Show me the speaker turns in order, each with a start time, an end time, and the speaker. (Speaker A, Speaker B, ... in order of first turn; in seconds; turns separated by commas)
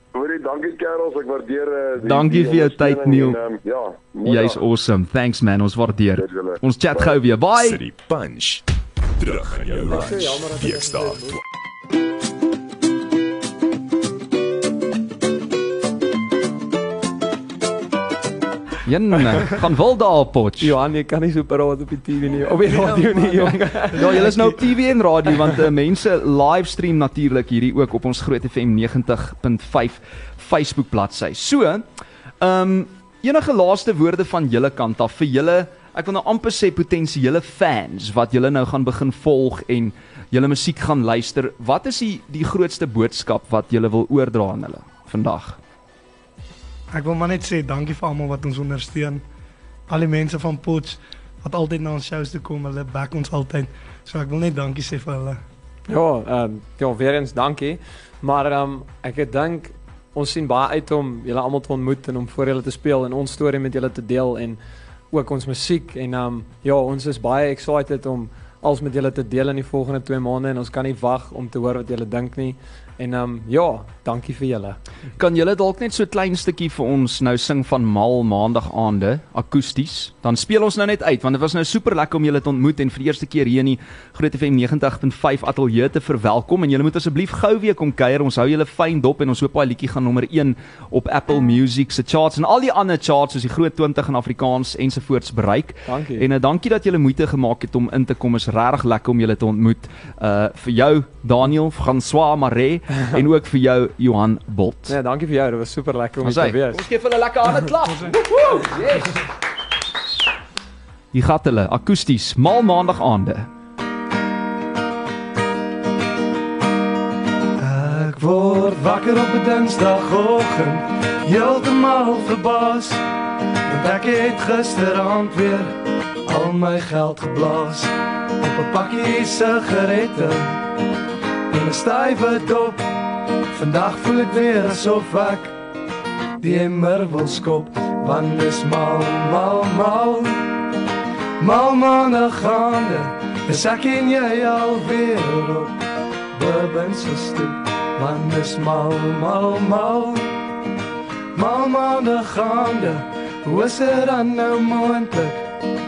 Speaker A: 0.1-4.6, Speaker B: 2.0-3.4, Speaker B: 4.2-7.8, Speaker A: 6.2-7.2, Speaker C: 7.5-8.6, Speaker C: 9.2-11.4, Speaker D: 9.9-11.3, Speaker B: 18.9-20.7, Speaker D: 20.6-24.2, Speaker B: 23.9-31.8, Speaker B: 32.4-45.6, Speaker E: 46.9-49.2, Speaker E: 49.9-55.4, Speaker D: 55.9-64.6, Speaker D: 65.1-74.8, Speaker B: 75.2-104.9, Speaker D: 95.9-96.2, Speaker D: 104.9-106.8, Speaker B: 106.2-109.2, Speaker B: 111.1-113.5, Speaker E: 117.6-123.0, Speaker E: 123.7-130.7, Speaker E: 131.5-133.0, Speaker E: 133.5-135.6, Speaker E: 136.4-140.5, Speaker E: 141.4-145.8, Speaker E: 146.3-150.3, Speaker E: 151.3-155.5